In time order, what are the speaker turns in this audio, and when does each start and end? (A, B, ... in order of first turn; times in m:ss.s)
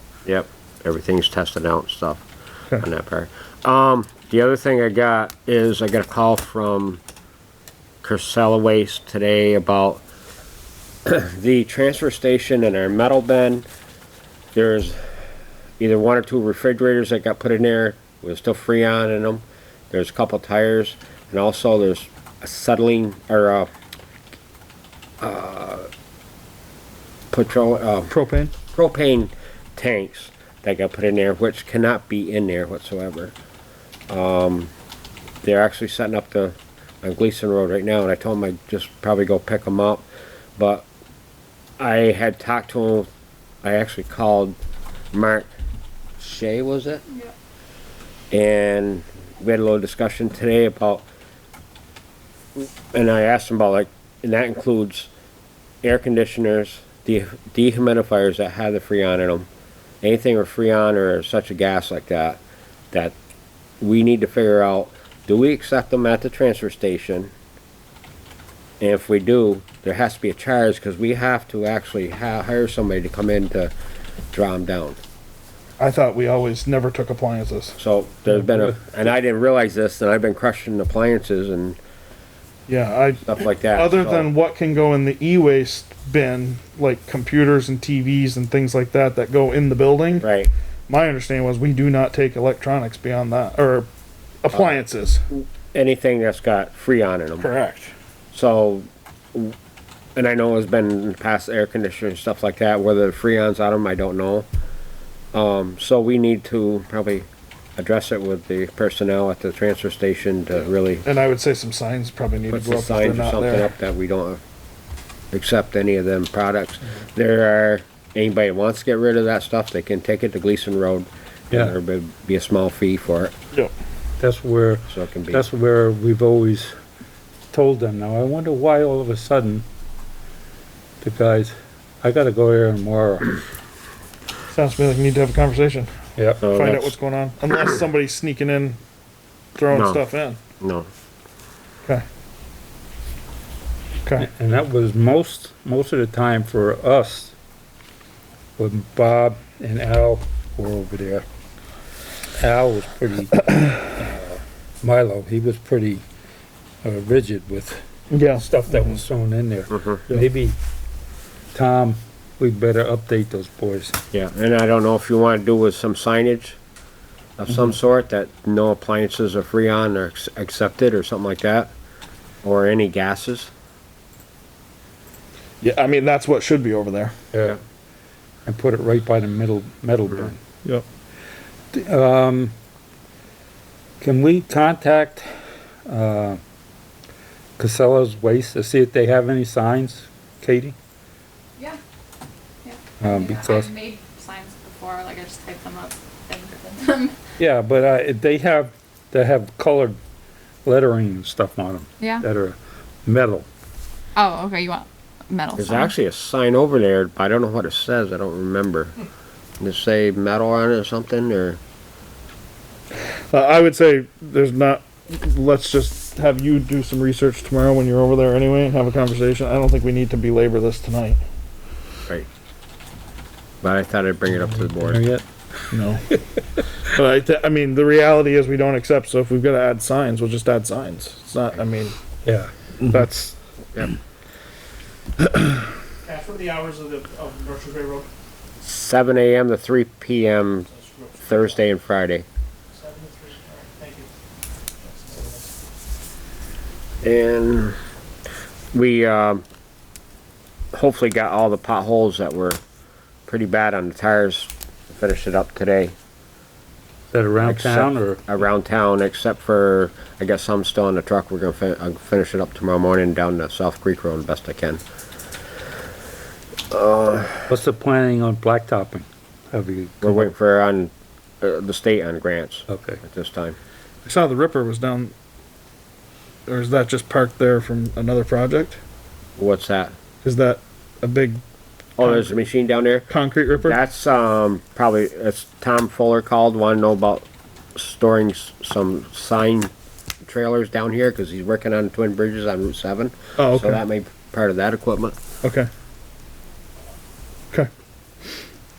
0:00.3-0:02.2 A
0:02.8-0:07.0 A
0:08.0-0:10.0 A
0:11.0-0:13.6 A
0:14.6-0:15.0 A
0:15.8-0:23.7 A
0:25.2-0:25.9 A
0:27.3-0:28.1 A
0:28.1-0:28.5 B
0:28.7-0:33.3 A
0:34.1-0:34.7 A
0:35.4-0:40.1 A
0:40.6-0:40.9 A
0:41.8-0:43.1 A
0:43.6-0:44.6 A
0:45.1-0:45.5 A
0:46.2-0:47.0 A
0:48.3-0:51.1 A
0:52.6-0:55.1 A
0:55.8-0:59.5 A
1:00.0-1:02.4 A
1:03.8-1:07.3 A
1:08.8-1:13.7 A
1:14.3-1:15.0 A
1:15.8-1:17.8 B
1:17.8-1:21.8 A
1:22.7-1:30.3 B
1:23.3-1:24.3 A
1:30.2-1:30.5 A
1:30.9-1:33.9 B
1:34.4-1:35.2 B
1:35.3-1:37.5 A
1:37.4-1:37.9 B
1:38.3-1:39.6 A
1:40.2-1:44.5 A
1:45.3-1:51.0 A
1:51.0-1:53.7 B
1:52.5-1:54.4 A
1:55.3-2:03.3 A
2:04.2-2:06.8 C
2:04.9-2:05.4 A
2:07.5-2:09.6 C
2:11.0-2:13.4 C
2:14.5-2:15.9 B
2:16.2-2:16.4 C
2:16.4-2:16.9 A
2:16.5-2:18.8 B
2:19.6-2:20.4 B
2:19.7-2:20.0 A
2:20.6-2:20.9 A
2:24.2-2:27.4 C
2:28.6-2:31.3 C
2:32.4-2:36.0 C
2:36.8-2:37.8 C
2:38.1-2:38.5 B
2:38.3-2:40.6 C
2:39.7-2:40.0 A
2:41.5-2:44.0 C
2:44.1-2:46.6 A
2:47.4-2:51.7 A
2:52.4-2:53.5 A
2:55.6-2:57.1 B
2:58.5-3:00.4 C
3:01.7-3:02.5 C
3:04.0-3:05.3 C
3:05.9-3:06.4 C
3:07.6-3:10.8 C
3:12.6-3:17.2 D
3:13.0-3:13.7 C
3:17.4-3:20.0 C
3:20.6-3:23.5 C
3:22.0-3:22.2 D
3:24.2-3:25.9 D
3:25.6-3:28.9 A
3:29.6-3:31.6 A
3:33.3-3:41.2 B
3:43.6-3:45.0 A
3:44.8-3:45.2 C
3:45.7-3:46.1 B
3:46.8-3:52.0 B
3:52.2-3:52.5 C
3:52.8-3:53.4 B
3:56.0-3:58.1 E
3:58.6-4:00.7 A
4:00.7-4:01.5 E
4:01.2-4:02.3 A
4:02.7-4:04.1 E
4:04.8-4:05.5 E
4:07.0-4:07.8 A
4:08.7-4:09.4 A
4:10.7-4:12.6 A
4:13.3-4:16.0 A
4:17.1-4:18.2 C
4:17.4-4:24.8 A
4:26.7-4:27.4 A
4:27.5-4:30.3 C
4:30.0-4:33.6 A
4:32.7-4:33.0 C
4:34.0-4:35.1 B
4:36.5-4:38.8 B
4:39.4-4:39.9 A
4:40.2-4:41.4 B
4:42.0-4:43.1 A
4:43.1-4:43.8 B
4:43.6-4:49.7 A
4:50.2-4:55.2 A
4:53.4-4:53.8 B
4:55.4-4:55.7 B